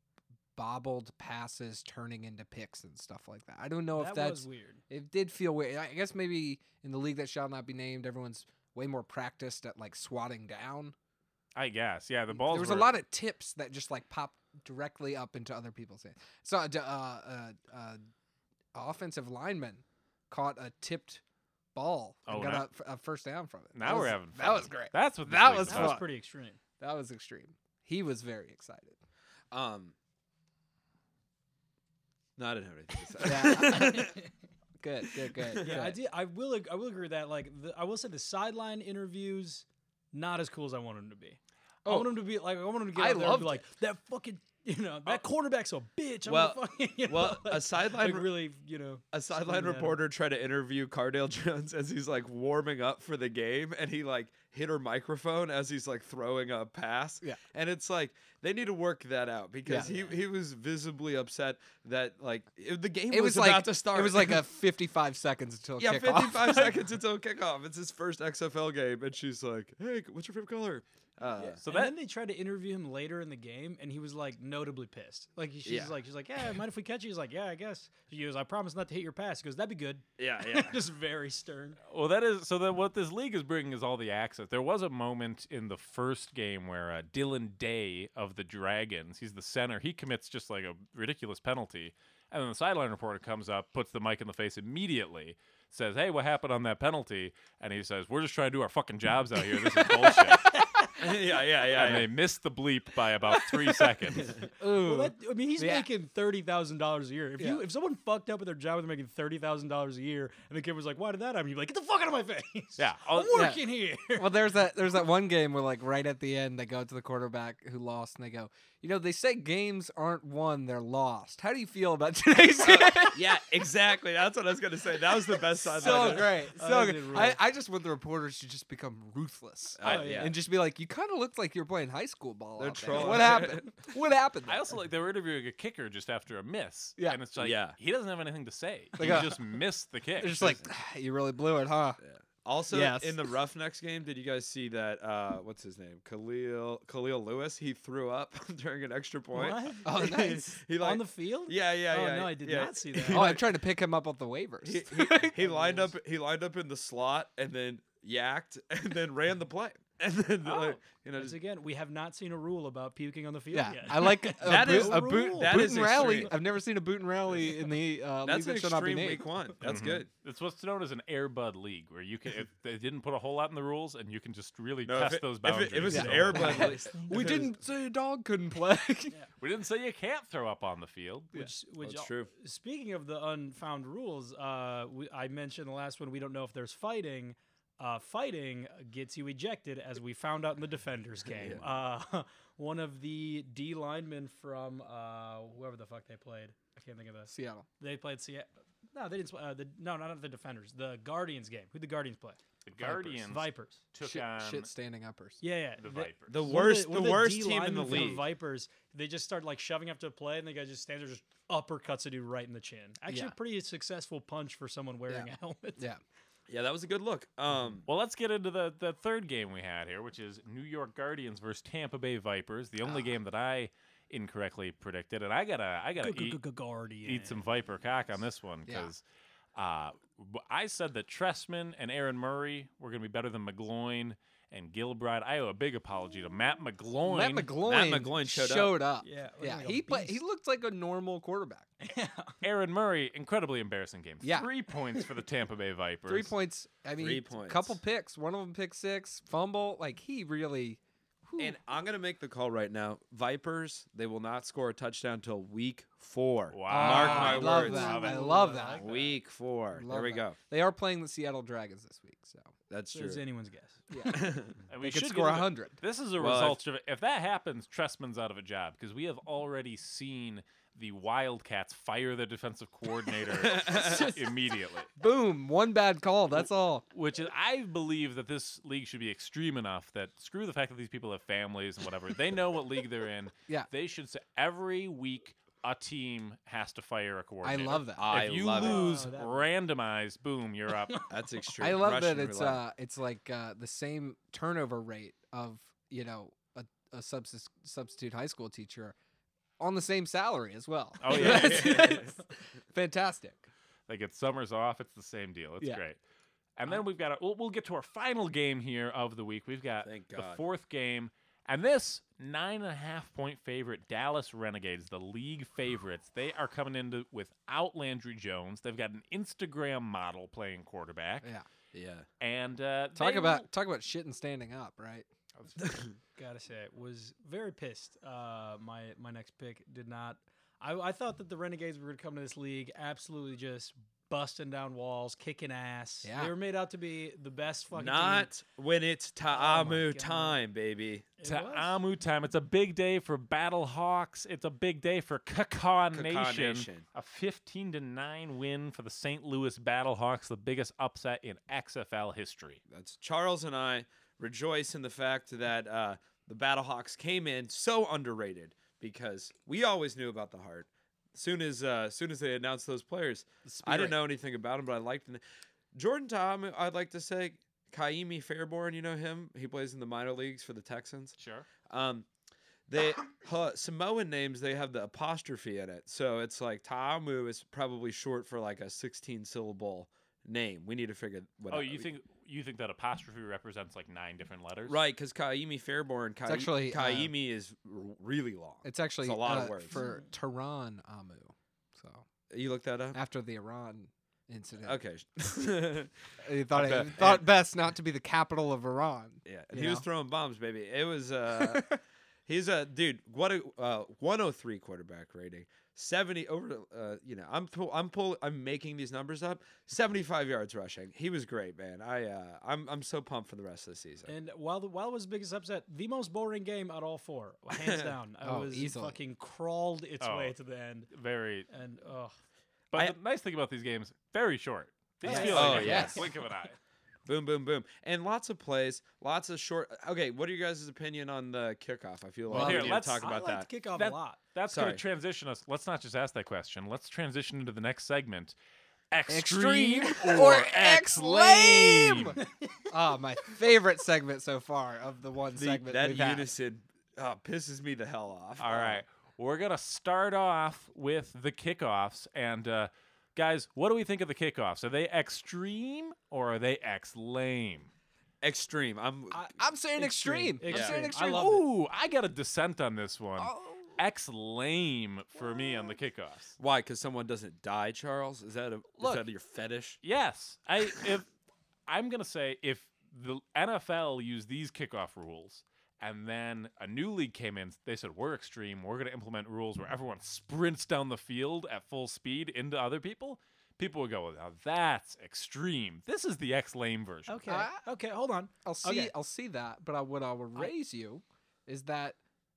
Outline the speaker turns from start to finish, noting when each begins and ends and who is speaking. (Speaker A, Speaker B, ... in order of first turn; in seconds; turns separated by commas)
Speaker A: 0.6-10.9, Speaker B: 4.0-4.8, Speaker C: 11.6-13.0, Speaker A: 12.3-18.0, Speaker A: 18.7-21.2, Speaker A: 21.8-26.1, Speaker C: 22.3-22.6, Speaker C: 23.7-26.0, Speaker B: 25.7-26.6, Speaker A: 26.8-29.0, Speaker D: 29.5-29.9, Speaker D: 32.4-34.2, Speaker A: 33.2-34.1, Speaker B: 33.5-34.2, Speaker A: 34.8-36.0, Speaker D: 35.5-35.9, Speaker B: 35.6-50.0, Speaker A: 43.0-43.6, Speaker D: 46.2-48.3, Speaker D: 49.1-64.5, Speaker A: 59.7-59.9, Speaker A: 63.1-66.8, Speaker D: 65.8-71.6, Speaker C: 71.4-72.0, Speaker B: 71.7-81.8, Speaker D: 75.7-76.0, Speaker D: 80.2-80.8, Speaker C: 81.9-100.5, Speaker B: 100.3-101.1, Speaker D: 101.0-102.1, Speaker C: 101.7-104.4, Speaker A: 103.5-105.9, Speaker B: 104.6-114.3, Speaker A: 107.4-107.6, Speaker C: 112.8-113.4, Speaker A: 113.3-123.4, Speaker D: 122.6-126.4, Speaker A: 125.3-134.7, Speaker B: 125.7-127.4, Speaker D: 129.8-130.3, Speaker B: 129.8-130.3, Speaker D: 132.6-133.7, Speaker C: 134.5-140.6, Speaker D: 137.4-137.8, Speaker A: 139.0-139.4, Speaker A: 140.2-142.0, Speaker D: 142.0-153.4, Speaker A: 142.7-143.4, Speaker B: 149.3-153.3, Speaker A: 149.8-150.6, Speaker A: 153.1-155.4, Speaker D: 154.6-161.4, Speaker B: 155.4-155.9, Speaker B: 160.4-166.3, Speaker A: 163.5-169.8, Speaker D: 164.3-166.3, Speaker D: 168.2-170.1, Speaker C: 169.6-176.8, Speaker D: 174.8-177.5, Speaker A: 175.8-179.2, Speaker B: 176.2-177.4, Speaker C: 179.4-181.3, Speaker B: 181.3-203.8, Speaker D: 181.8-182.3, Speaker D: 191.3-191.7, Speaker A: 197.3-197.7, Speaker C: 202.7-204.7, Speaker A: 204.0-205.4, Speaker B: 205.4-215.8, Speaker C: 205.8-206.5, Speaker D: 206.3-208.3, Speaker A: 213.1-213.3, Speaker A: 215.1-216.0, Speaker D: 216.5-217.9, Speaker C: 217.9-226.4, Speaker A: 222.8-223.1, Speaker B: 226.0-227.4, Speaker C: 227.0-229.0, Speaker C: 229.6-237.5, Speaker A: 237.0-241.7, Speaker D: 237.6-238.8, Speaker B: 239.0-240.2, Speaker B: 241.8-242.3, Speaker C: 242.4-246.3, Speaker A: 244.2-244.5, Speaker A: 246.1-251.6, Speaker D: 247.0-247.8, Speaker D: 251.4-258.0, Speaker C: 256.5-258.5, Speaker A: 256.7-258.9, Speaker B: 256.8-259.1, Speaker D: 258.8-260.4, Speaker A: 259.7-262.5, Speaker D: 262.7-263.2, Speaker B: 262.9-263.8, Speaker A: 263.9-265.8, Speaker D: 264.0-264.6, Speaker C: 264.7-274.9, Speaker D: 266.2-266.6, Speaker D: 273.4-274.1, Speaker A: 273.6-274.3, Speaker A: 275.0-276.9, Speaker C: 276.9-291.1, Speaker A: 287.4-288.3, Speaker D: 288.0-288.9, Speaker B: 288.5-289.5, Speaker D: 291.1-292.6, Speaker A: 291.6-298.9, Speaker A: 299.6-303.5, Speaker C: 301.0-301.9, Speaker D: 301.1-302.1, Speaker C: 303.9-306.0, Speaker C: 306.6-321.3, Speaker D: 309.8-310.4, Speaker D: 321.7-322.1, Speaker C: 322.2-323.5, Speaker A: 322.9-325.1, Speaker B: 326.2-338.3, Speaker A: 336.0-336.3, Speaker D: 337.7-341.1, Speaker B: 339.3-340.4, Speaker B: 341.2-341.8, Speaker C: 341.2-352.6, Speaker D: 345.9-346.9, Speaker D: 352.7-365.2, Speaker A: 363.5-363.9, Speaker D: 365.7-371.2, Speaker C: 371.2-371.5, Speaker D: 371.7-372.1, Speaker D: 372.7-381.9, Speaker C: 381.5-384.8, Speaker D: 384.7-389.8, Speaker A: 386.3-387.1, Speaker A: 388.6-392.1, Speaker B: 389.7-390.1, Speaker D: 392.3-393.0, Speaker A: 392.9-394.8, Speaker D: 394.6-395.9, Speaker A: 396.2-399.9, Speaker D: 396.5-397.3, Speaker D: 399.2-401.8, Speaker A: 401.4-401.7, Speaker D: 402.3-414.1, Speaker B: 414.1-420.9, Speaker D: 417.6-417.9, Speaker A: 418.2-419.0, Speaker C: 420.0-420.3, Speaker C: 420.9-421.5, Speaker B: 421.5-422.1, Speaker C: 422.7-426.6, Speaker A: 425.0-426.1, Speaker B: 425.0-426.1, Speaker D: 425.3-426.0, Speaker D: 427.1-433.5, Speaker C: 432.3-433.0, Speaker A: 432.3-432.8, Speaker B: 432.6-434.2, Speaker C: 433.8-438.4, Speaker D: 434.5-434.8, Speaker C: 438.9-442.2, Speaker A: 439.1-446.3, Speaker D: 445.4-448.8, Speaker C: 448.4-457.7, Speaker D: 458.2-459.3, Speaker B: 459.1-461.4, Speaker A: 459.4-461.4, Speaker D: 460.5-460.8, Speaker C: 460.7-466.4, Speaker A: 463.2-463.8, Speaker D: 466.4-469.8, Speaker C: 469.8-471.1, Speaker C: 471.7-487.2, Speaker B: 487.1-488.9, Speaker A: 487.3-487.6, Speaker A: 488.4-492.0